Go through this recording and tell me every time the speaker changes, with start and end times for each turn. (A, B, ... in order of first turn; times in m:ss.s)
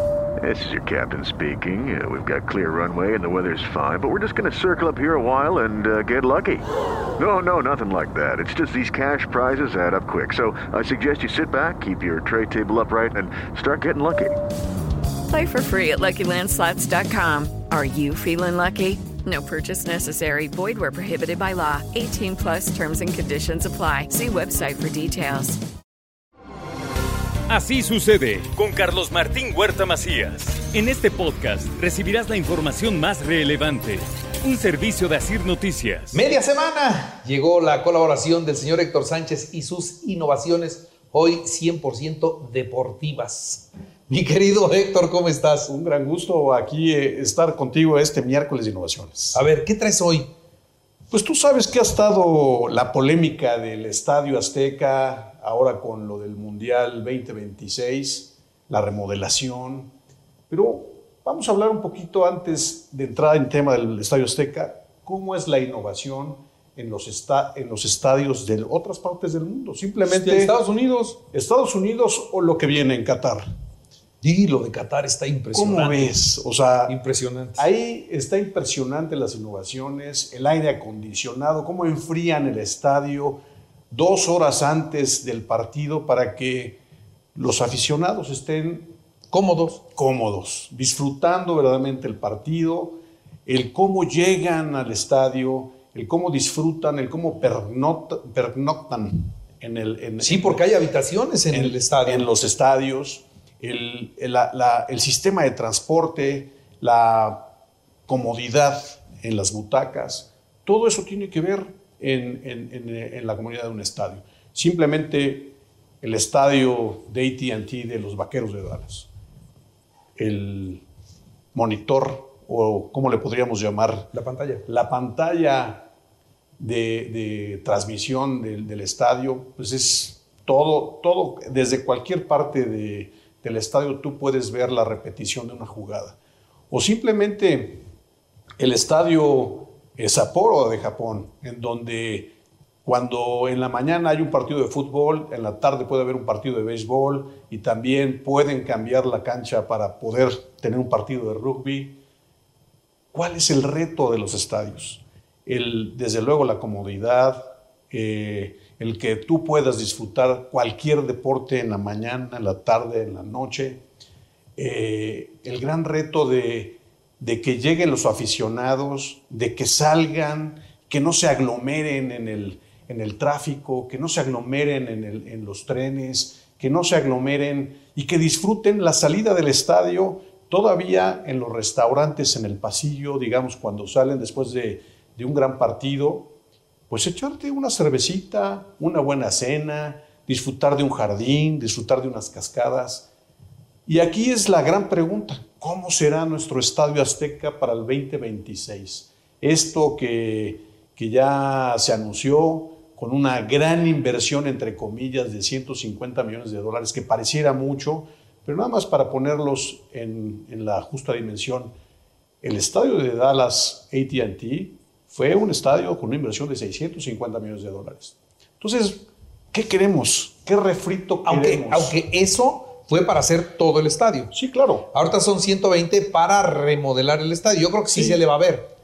0:00.4-0:06.7 A
0:07.2-0:14.4 A
0:15.3-0:25.6 B
0:27.5-0:36.2 C
0:36.1-0:45.7 D
0:45.7-0:49.4 E
0:49.3-0:50.3 D
0:51.1-0:59.9 E
1:00.5-1:10.6 E
1:10.1-1:11.2 D
1:11.3-1:13.5 E
1:14.2-1:16.1 D
1:15.5-1:17.0 E
1:16.9-1:17.7 D
1:17.6-1:23.4 E
1:23.9-1:26.8 E
1:27.3-1:28.9 E
1:29.3-1:29.8 D
1:29.9-1:40.6 E
1:40.2-1:42.3 D
1:41.5-1:47.5 E
1:48.1-1:59.1 E
2:00.2-2:00.8 E
2:01.5-2:04.1 E
2:04.1-2:04.6 D
2:04.7-2:05.9 E
2:06.6-2:16.2 E
2:16.7-2:17.8 E
2:18.6-2:32.0 E
2:33.1-2:43.8 E
2:44.6-3:06.3 E
3:06.9-3:13.1 E
3:13.8-3:31.7 E
3:32.4-3:42.0 E
3:41.2-3:44.3 D
3:44.3-3:44.9 E
3:44.9-3:48.7 D
3:47.9-3:48.2 E